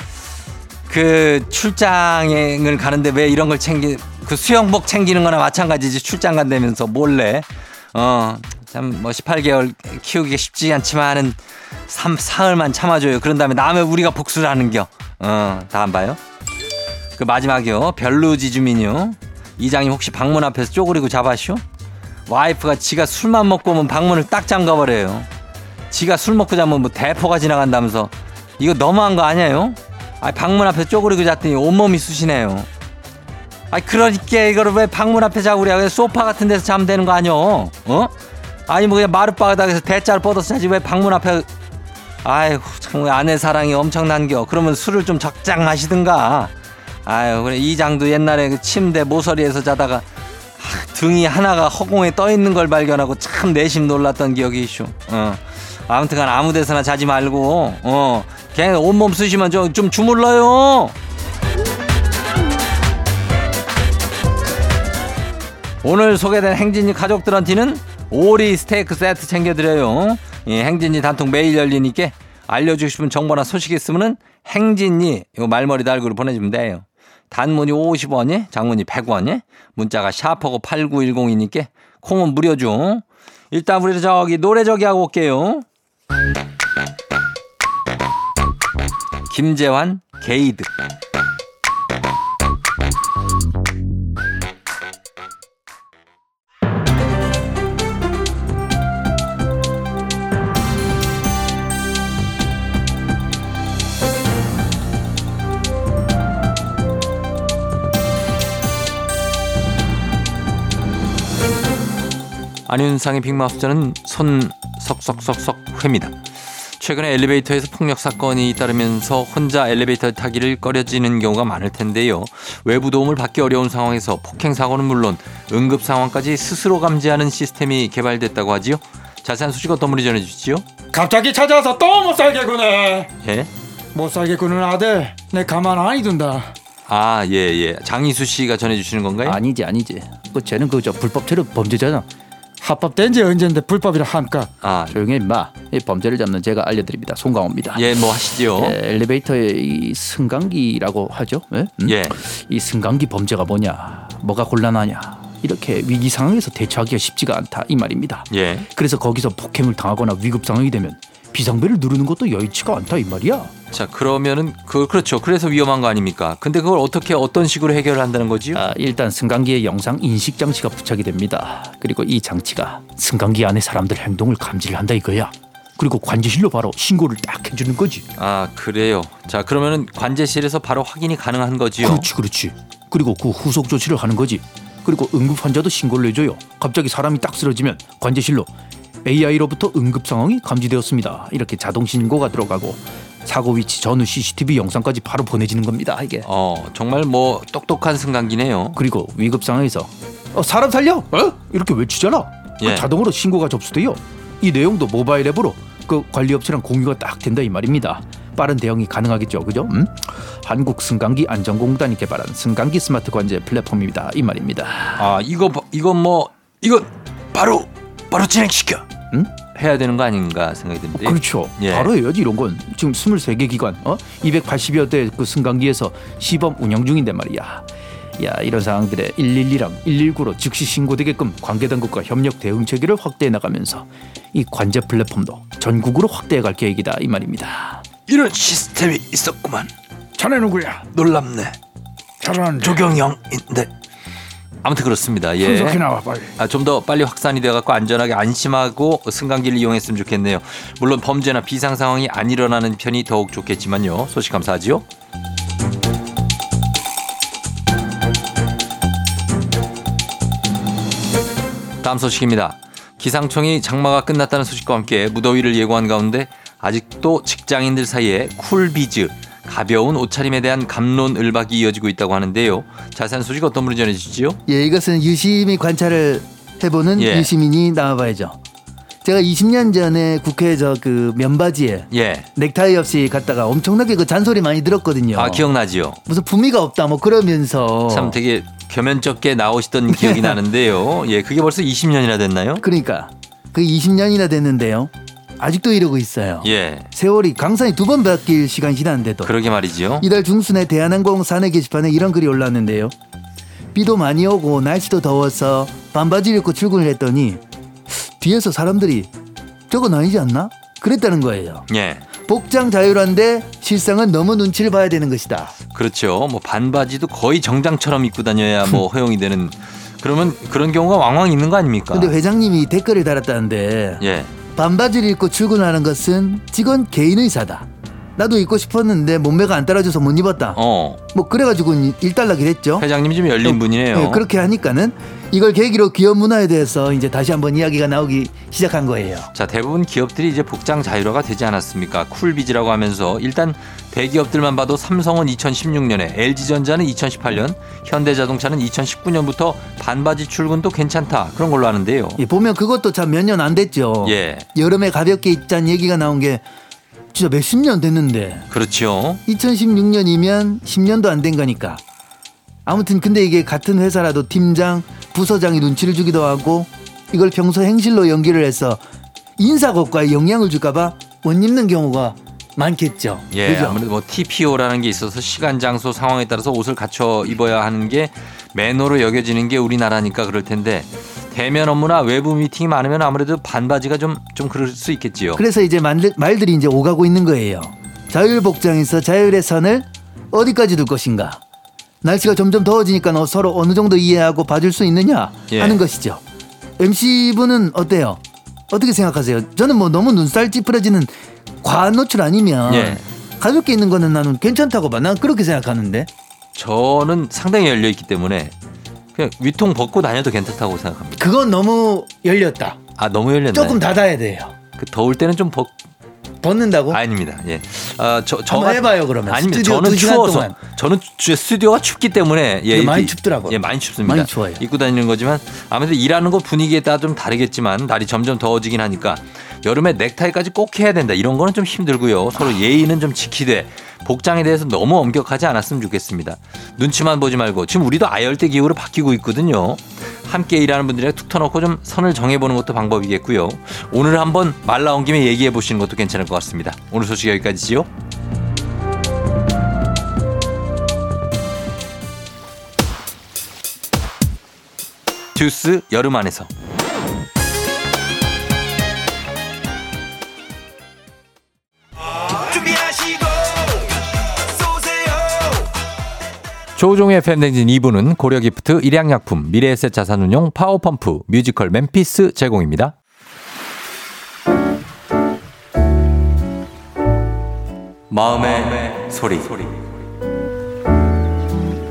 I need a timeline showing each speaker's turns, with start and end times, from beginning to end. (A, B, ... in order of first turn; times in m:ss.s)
0:00.9-0:16.2 A
0:17.2-0:21.6 A
0:22.3-0:25.3 A
0:25.9-0:32.7 A
0:33.7-0:38.1 A
0:38.7-0:41.5 A
0:42.2-0:46.5 A
0:47.0-0:50.1 A
0:50.6-1:01.0 A
1:05.8-1:25.6 A
1:29.3-1:30.7 A
1:52.7-2:10.6 A
2:10.9-2:13.1 B
2:13.2-2:13.5 A
2:13.9-2:16.5 B
2:16.9-2:19.4 A
2:19.2-2:22.1 C
2:22.6-2:24.5 B
2:24.6-2:25.0 A
2:24.9-2:27.9 C
2:27.7-2:28.8 A
2:28.5-2:43.5 C
2:31.8-2:32.2 A
2:38.3-2:38.7 A
2:43.7-2:48.6 A
2:48.5-2:58.1 C
2:58.2-3:02.1 A
3:01.8-3:08.5 C
3:09.0-3:16.3 C
3:16.2-3:18.8 A
3:18.8-3:35.0 C
3:22.6-3:22.9 A
3:35.0-3:38.9 A
3:39.5-3:41.9 A
3:40.9-3:47.6 C
3:48.2-3:57.8 C
3:58.1-3:58.6 B
3:58.7-3:59.1 A
4:00.2-4:00.9 B
4:00.9-4:01.6 A
4:02.2-4:03.1 B
4:04.6-4:05.8 A
4:05.4-4:06.3 B
4:06.4-4:14.8 A
4:21.8-4:34.4 A
4:34.5-4:38.4 D
4:36.9-4:37.3 A
4:39.0-4:45.4 D
4:41.9-4:42.3 A
4:45.1-4:46.0 A
4:46.1-4:48.0 D
4:47.9-4:52.6 A
4:52.6-4:59.3 D
4:56.4-4:56.9 A
4:59.2-5:00.0 A
5:00.0-5:02.9 D
5:03.7-5:07.4 D
5:08.2-5:09.1 D
5:09.7-5:11.6 D
5:11.7-5:12.0 A
5:12.2-5:15.6 D
5:15.7-5:22.1 A
5:21.9-5:24.0 D
5:24.0-5:24.3 A
5:24.5-5:30.6 D
5:30.5-5:31.0 A
5:31.1-5:32.8 D
5:32.8-5:34.2 A
5:33.4-5:39.3 D
5:39.3-5:52.2 A
5:52.2-5:56.4 D
5:54.0-5:54.5 A
5:57.1-5:58.4 D
5:58.5-5:59.2 A
5:59.2-6:01.8 D
6:02.6-6:08.8 D
6:09.4-6:13.8 D
6:13.3-6:25.4 A
6:25.4-6:31.4 D
6:32.0-6:36.2 D
6:35.5-6:35.8 A
6:36.8-6:41.1 D
6:41.6-6:46.1 D
6:42.7-6:43.0 A
6:46.5-6:48.5 A
6:49.1-6:51.3 A
6:51.2-6:52.3 D
6:53.0-6:53.8 A
6:53.6-6:54.5 D
6:54.8-6:55.8 A
6:56.4-6:56.9 D
6:56.9-7:27.9 A
6:58.5-7:00.5 D
6:59.6-7:00.3 C
7:02.8-7:03.5 C
7:02.9-7:03.5 D
7:04.1-7:04.6 C
7:04.1-7:04.6 D
7:35.3-7:36.5 A
7:46.8-7:52.9 A
7:58.1-7:59.8 A